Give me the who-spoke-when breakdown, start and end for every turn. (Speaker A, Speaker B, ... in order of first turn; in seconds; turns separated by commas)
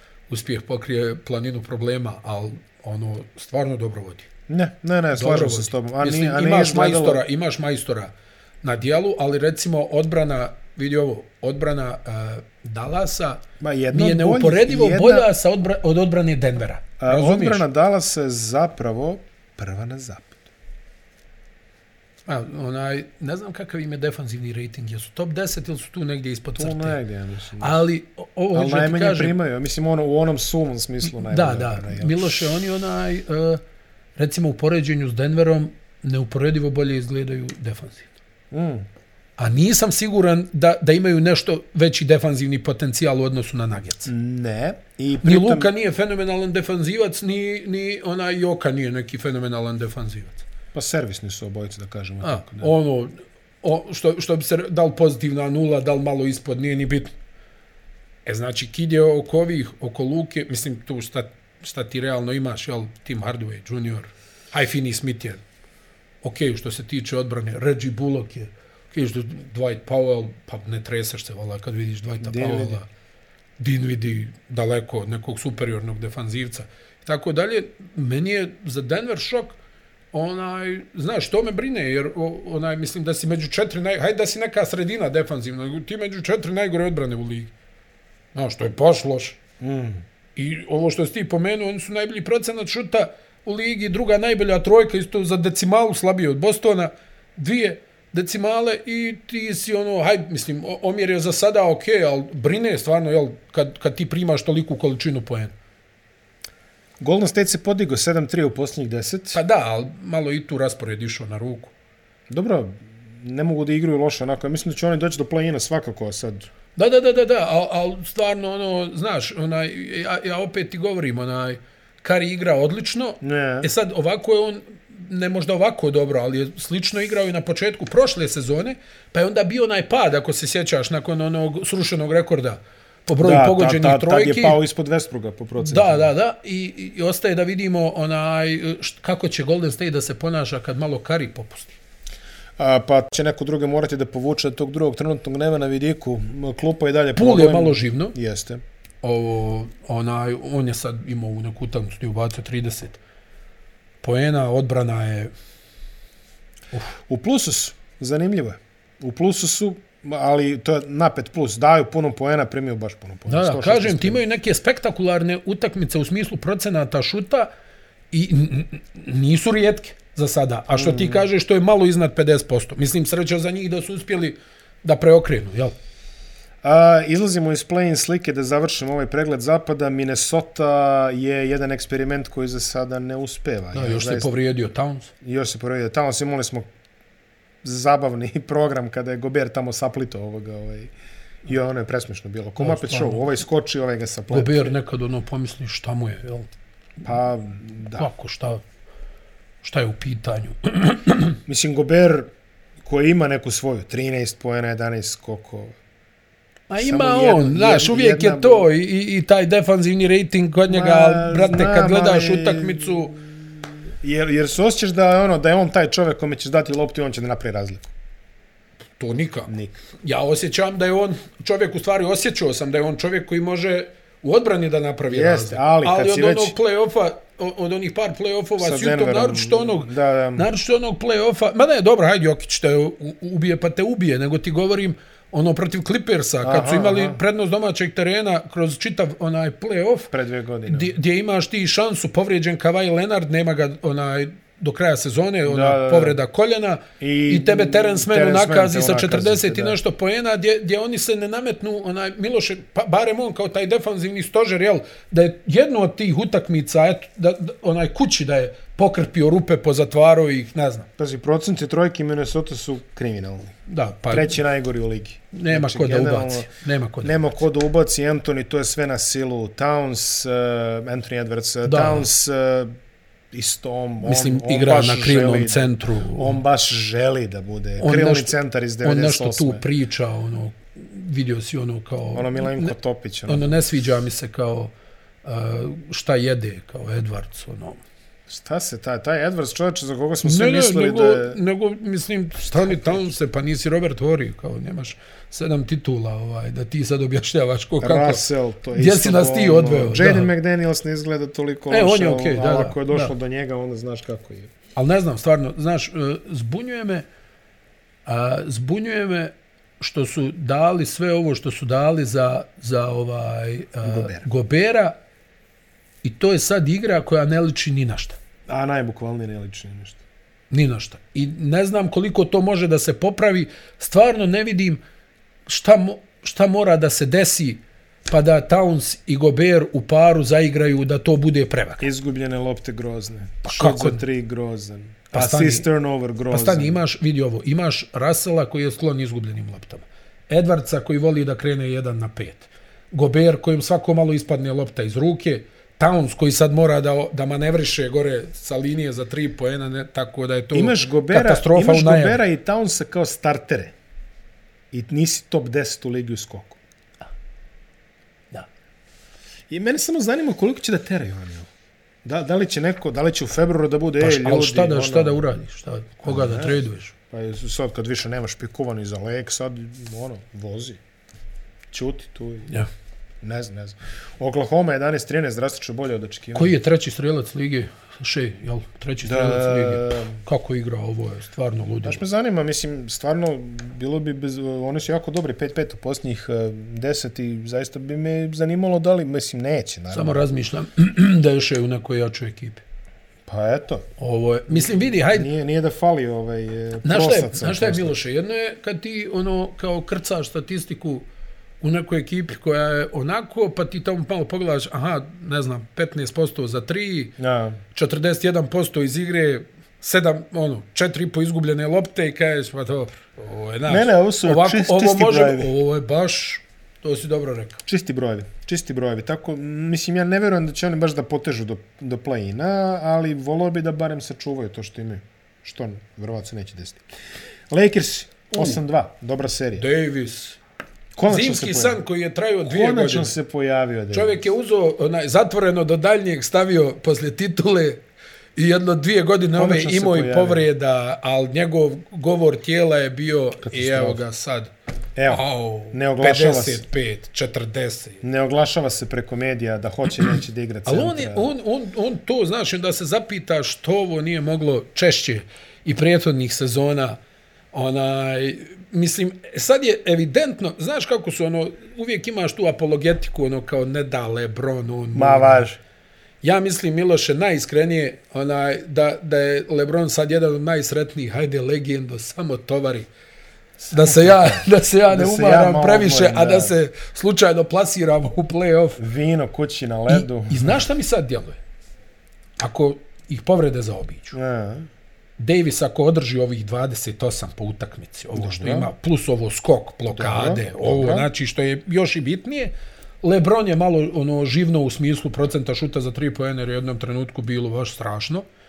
Speaker A: 0.3-4.3, Speaker B: 4.5-7.2, Speaker A: 5.1-17.6, Speaker B: 13.6-15.3, Speaker B: 17.0-20.4, Speaker A: 22.2-27.0, Speaker B: 26.6-27.8, Speaker A: 27.6-29.3, Speaker B: 28.5-32.5, Speaker A: 31.0-33.6, Speaker A: 34.1-38.1, Speaker B: 38.5-38.9, Speaker A: 39.4-44.1, Speaker B: 44.0-45.7, Speaker A: 45.2-50.4, Speaker B: 50.7-52.7, Speaker A: 52.2-57.1, Speaker A: 58.2-65.4, Speaker A: 66.2-72.9, Speaker B: 72.2-72.8, Speaker A: 73.6-79.6, Speaker A: 80.1-87.5, Speaker A: 88.3-89.4, Speaker B: 89.6-90.0, Speaker A: 90.3-105.5, Speaker B: 107.0-109.4, Speaker A: 109.3-111.7, Speaker B: 112.3-116.5, Speaker A: 116.8-134.6, Speaker B: 123.2-123.7, Speaker B: 133.2-136.1, Speaker A: 135.6-141.7, Speaker B: 142.6-148.6, Speaker A: 147.2-148.1, Speaker A: 149.0-153.0, Speaker A: 154.0-155.3, Speaker B: 157.1-164.2, Speaker A: 163.3-167.5, Speaker A: 168.1-175.7, Speaker B: 170.7-171.2, Speaker B: 176.6-184.3, Speaker A: 183.7-185.1, Speaker B: 185.2-186.7, Speaker B: 187.6-190.9, Speaker B: 191.4-194.7, Speaker A: 192.6-193.2, Speaker A: 194.3-196.5, Speaker B: 197.0-198.1, Speaker A: 198.0-198.6, Speaker A: 199.6-201.4, Speaker B: 201.4-202.3, Speaker B: 202.8-205.7, Speaker A: 206.7-213.1, Speaker B: 206.8-208.7, Speaker B: 210.7-213.3, Speaker B: 214.0-217.9, Speaker A: 219.0-240.1, Speaker B: 219.5-219.8, Speaker B: 225.1-226.5, Speaker B: 228.6-230.5, Speaker B: 236.4-237.2, Speaker B: 240.1-240.9, Speaker A: 240.7-260.9, Speaker B: 245.4-246.2, Speaker B: 247.0-249.8, Speaker B: 261.0-263.6, Speaker A: 263.7-264.4, Speaker B: 264.1-266.5, Speaker A: 265.3-267.2, Speaker B: 267.0-272.7, Speaker A: 271.6-272.1, Speaker B: 273.3-279.6, Speaker A: 274.0-276.4, Speaker A: 277.8-282.7, Speaker B: 282.1-283.6, Speaker A: 283.3-287.8, Speaker B: 288.3-291.4, Speaker A: 290.2-298.2, Speaker B: 292.6-293.1, Speaker B: 297.8-304.5, Speaker A: 298.7-300.3, Speaker A: 301.7-303.1, Speaker A: 304.8-307.1, Speaker A: 308.1-315.0, Speaker B: 313.8-314.2, Speaker A: 316.0-318.2, Speaker B: 318.5-320.0, Speaker A: 320.5-324.8, Speaker A: 325.4-331.8, Speaker B: 331.8-336.8, Speaker A: 333.4-334.0, Speaker A: 335.1-335.6, Speaker A: 336.3-352.2, Speaker B: 350.5-353.7, Speaker B: 354.7-356.6, Speaker B: 359.5-361.5, Speaker B: 362.0-365.2, Speaker A: 364.0-366.9, Speaker B: 366.0-366.6, Speaker B: 367.1-370.8, Speaker B: 371.7-372.6, Speaker B: 373.2-376.6, Speaker A: 376.3-382.0, Speaker B: 379.0-380.2, Speaker B: 381.8-390.3, Speaker A: 389.9-392.6, Speaker B: 393.3-393.9, Speaker A: 394.0-395.3, Speaker B: 394.5-397.9, Speaker A: 396.8-401.1, Speaker A: 401.6-407.1, Speaker B: 407.2-407.6, Speaker A: 407.7-417.6, Speaker B: 413.7-415.5, Speaker B: 417.6-426.8, Speaker B: 427.5-429.6, Speaker A: 429.6-430.4, Speaker B: 430.9-431.8, Speaker A: 431.1-433.1, Speaker B: 432.4-434.2, Speaker A: 433.9-437.8, Speaker A: 438.3-444.5, Speaker B: 439.3-440.4, Speaker B: 443.4-444.0, Speaker B: 444.9-446.6, Speaker A: 445.1-448.0, Speaker B: 448.0-451.3, Speaker A: 450.6-457.0, Speaker A: 457.5-465.4, Speaker B: 464.9-465.6, Speaker A: 466.2-472.9, Speaker B: 473.6-476.5, Speaker A: 473.7-478.8, Speaker B: 478.8-480.6, Speaker A: 479.9-481.4, Speaker A: 482.4-484.1, Speaker B: 484.1-484.7, Speaker A: 485.2-492.5, Speaker B: 488.1-488.7, Speaker B: 489.9-491.1, Speaker A: 493.0-498.2